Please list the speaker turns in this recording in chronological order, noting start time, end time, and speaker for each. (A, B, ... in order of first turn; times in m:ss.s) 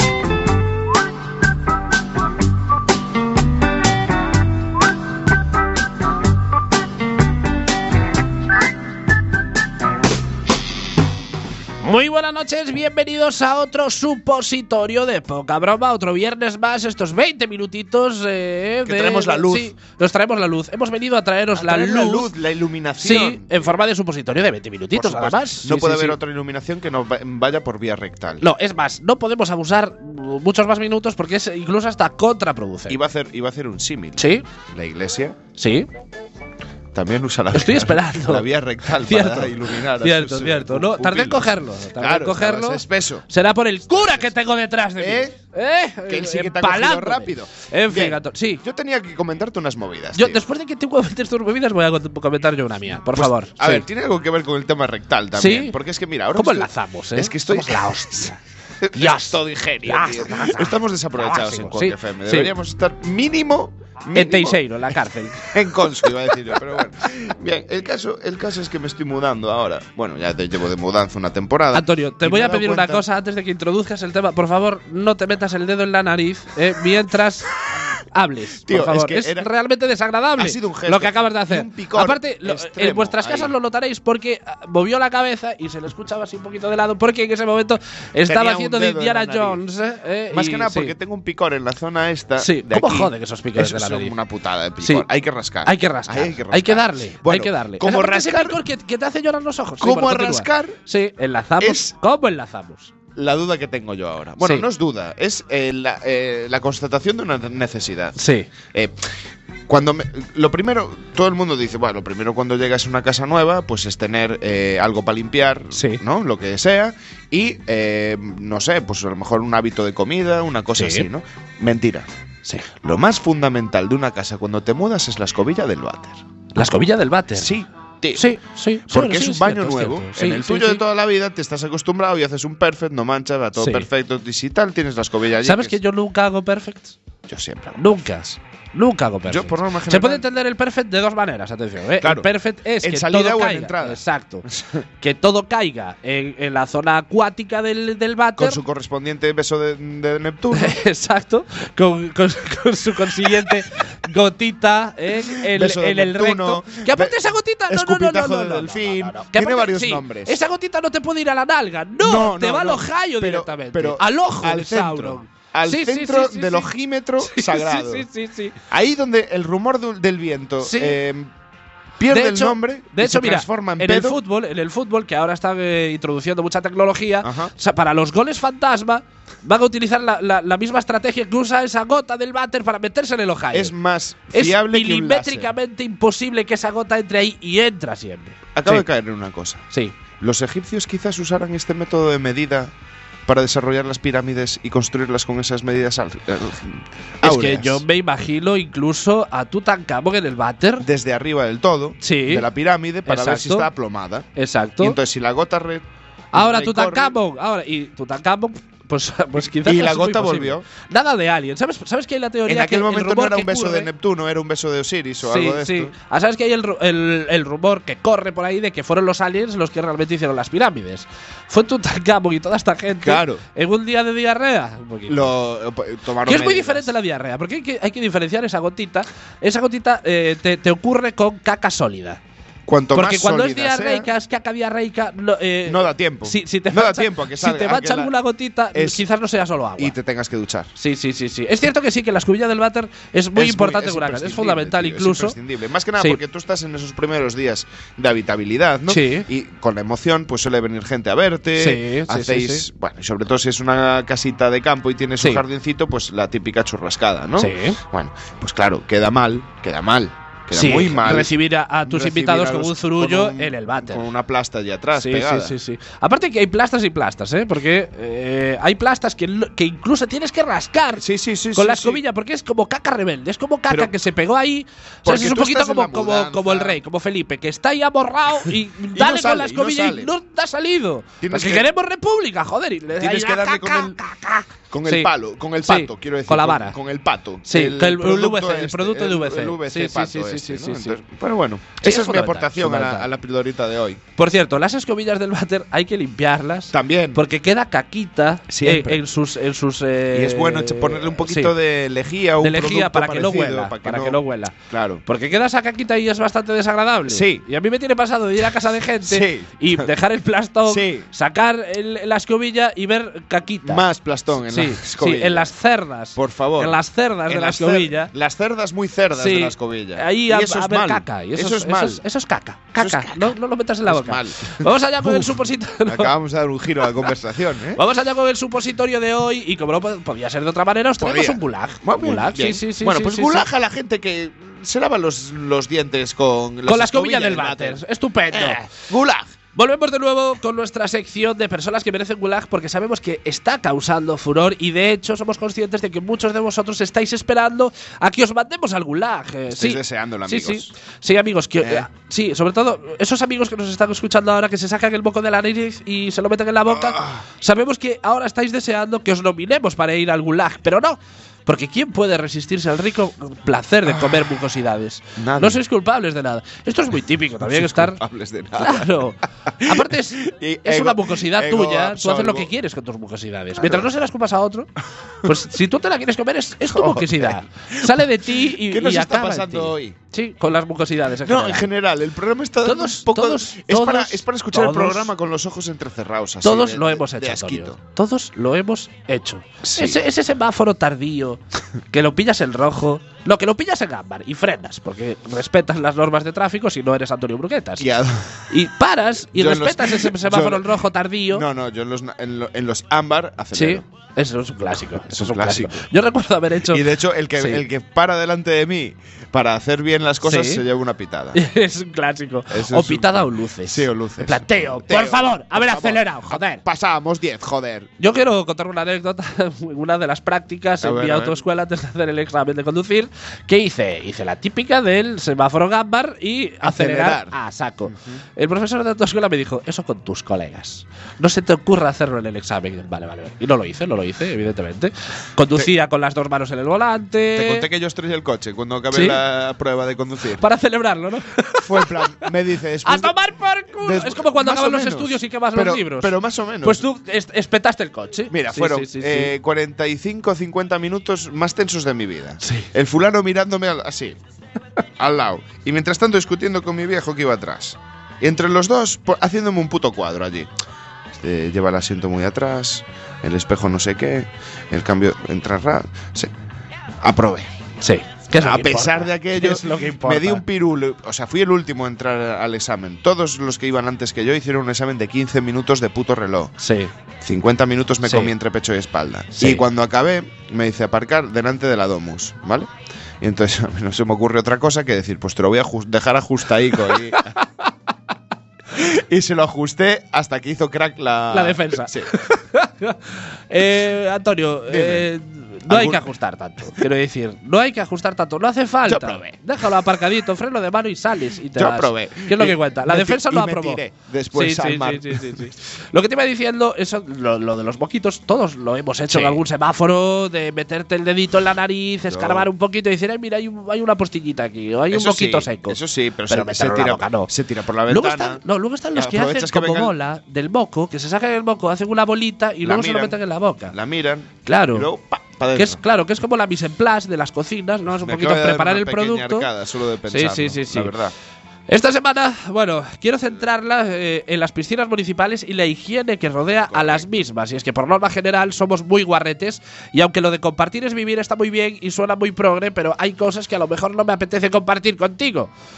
0:11.8-0:22.3 A
0:18.9-0:19.7 B
0:21.5-0:23.8 B
0:23.0-0:26.2 A
0:24.9-0:28.5 B
0:28.4-0:33.0 A
0:32.9-0:35.4 B
0:34.2-0:34.4 A
0:35.6-0:35.9 A
0:36.9-0:43.3 B
0:37.5-0:48.6 A
0:43.8-0:44.3 B
0:45.0-0:45.4 B
0:46.1-0:50.5 B
0:50.1-0:53.8 A
0:53.1-0:58.3 B
0:55.3-0:55.8 A
0:56.3-0:58.4 A
0:58.8-1:04.9 B
0:58.9-1:02.5 A
1:04.2-1:05.5 A
1:05.4-1:13.1 B
1:11.7-1:30.9 A
1:18.6-1:19.5 B
1:20.4-1:23.6 B
1:28.3-1:29.6 B
1:30.3-1:38.6 B
1:32.4-1:34.2 A
1:35.6-1:42.9 A
1:39.8-1:40.8 B
1:41.6-1:42.0 B
1:43.2-1:48.2 B
1:44.4-1:44.7 A
1:48.2-1:48.5 A
1:48.7-1:49.0 B
1:49.7-2:02.1 B
1:55.7-1:56.0 A
2:00.8-2:01.1 A
2:02.8-2:08.3 B
2:06.6-2:07.5 A
2:08.1-2:10.8 A
2:08.9-2:15.8 B
2:13.6-2:13.9 A
2:15.4-2:17.0 A
2:17.3-2:18.3 B
2:17.8-2:24.5 A
2:19.3-2:20.3 B
2:22.0-2:24.8 B
2:25.0-2:28.6 A
2:28.4-2:30.8 B
2:30.5-2:48.6 A
2:35.3-2:40.4 B
2:42.0-2:48.1 B
2:48.7-2:51.3 B
2:50.6-2:51.0 A
2:52.0-2:54.2 B
2:52.1-3:03.7 A
2:57.2-2:57.5 B
3:03.5-3:05.5 B
3:04.3-3:08.9 A
3:08.6-3:09.6 B
3:10.2-3:12.7 B
3:13.3-3:17.8 B
3:17.2-3:20.9 A
3:20.8-3:24.3 B
3:22.0-3:22.5 A
3:23.1-3:23.7 A
3:24.4-3:25.0 A
3:24.8-3:27.2 B
3:26.3-3:33.9 A
3:29.4-3:30.7 B
3:32.5-3:35.9 B
3:35.2-3:45.3 A
3:43.0-3:43.4 B
3:45.1-3:46.9 B
3:46.2-3:52.2 A
3:52.7-3:54.1 B
3:52.9-4:00.0 A
3:55.6-3:58.2 B
3:58.7-3:59.0 B
3:59.8-4:00.7 B
4:00.8-4:05.4 A
4:03.4-4:21.3 B
4:08.9-4:09.3 A
4:11.6-4:12.7 A
4:17.4-4:17.8 A
4:20.5-4:24.1 A
4:21.9-4:25.6 B
4:24.9-4:31.0 A
4:31.0-4:32.0 B
4:31.6-4:45.1 A
4:35.0-4:36.8 B
4:38.9-4:40.1 B
4:41.2-4:41.7 B
4:43.0-4:44.0 B
4:44.7-4:54.0 B
4:45.6-4:46.8 A
4:47.4-4:51.0 A
4:51.8-4:53.1 A
4:54.2-5:01.5 A
4:56.7-4:57.2 B
4:58.5-4:59.0 B
5:00.1-5:05.0 B
5:02.4-5:04.5 A
5:05.0-5:13.8 A
5:07.1-5:07.4 B
5:09.0-5:09.9 B
5:10.6-5:11.1 B
5:13.6-5:15.5 B
5:14.4-5:18.1 A
5:16.2-5:22.0 B
5:19.2-5:26.1 A
5:22.8-5:27.8 B
5:27.8-5:33.5 A
5:31.0-5:39.3 B
5:36.7-5:38.7 A
5:39.5-6:08.0 A
5:49.5-5:50.7 B
5:51.6-5:51.9 B
5:56.7-5:57.2 B
6:03.9-6:04.3 B
6:05.2-6:05.6 B
6:07.4-6:12.5 B
6:08.6-6:14.7 A
6:13.6-6:14.0 B
6:15.2-6:21.7 A
6:16.7-6:20.0 B
6:21.2-6:27.8 B
6:22.6-6:25.1 A
6:26.4-6:37.9 A
6:29.6-6:30.0 B
6:37.8-6:38.6 B
6:38.5-6:41.4 A
6:39.3-6:40.8 B
6:41.3-6:43.8 B
6:43.5-6:47.6 A
6:45.0-6:45.8 B
6:46.7-6:51.4 B
6:50.2-6:50.6 A
6:51.3-6:56.6 A
6:52.5-6:57.9 B
6:58.0-7:17.7 A
7:00.8-7:01.4 B
7:06.6-7:08.2 B
7:17.3-7:20.4 B
7:18.9-7:19.2 A
7:20.3-7:22.0 A
7:21.6-7:23.2 B
7:22.8-7:29.3 A
7:23.8-7:26.9 B
7:28.3-7:34.2 B
7:35.0-7:40.5 B
7:41.1-7:46.3 B
7:47.0-7:47.5 B
7:47.8-7:50.4 A
7:48.4-7:56.5 B
7:56.6-7:56.9 A
7:57.2-8:02.7 B
7:58.0-7:58.3 A
7:59.4-7:59.6 A
8:03.2-8:07.3 B
8:06.8-8:07.5 A
8:08.7-8:12.2 B
8:11.3-8:37.3 A
8:14.7-8:15.1 B
8:15.7-8:16.1 B
8:18.8-8:19.3 B
8:21.6-8:25.5 B
8:29.1-8:29.4 B
8:32.1-8:32.5 B
8:34.9-8:38.4 B
8:37.9-8:43.8 A
8:39.0-8:39.9 B
8:42.6-8:45.8 B
8:44.5-8:44.9 A
8:45.6-8:49.5 A
8:47.9-8:51.1 B
8:50.1-8:51.0 A
8:51.7-9:05.5 A
8:56.7-8:57.1 B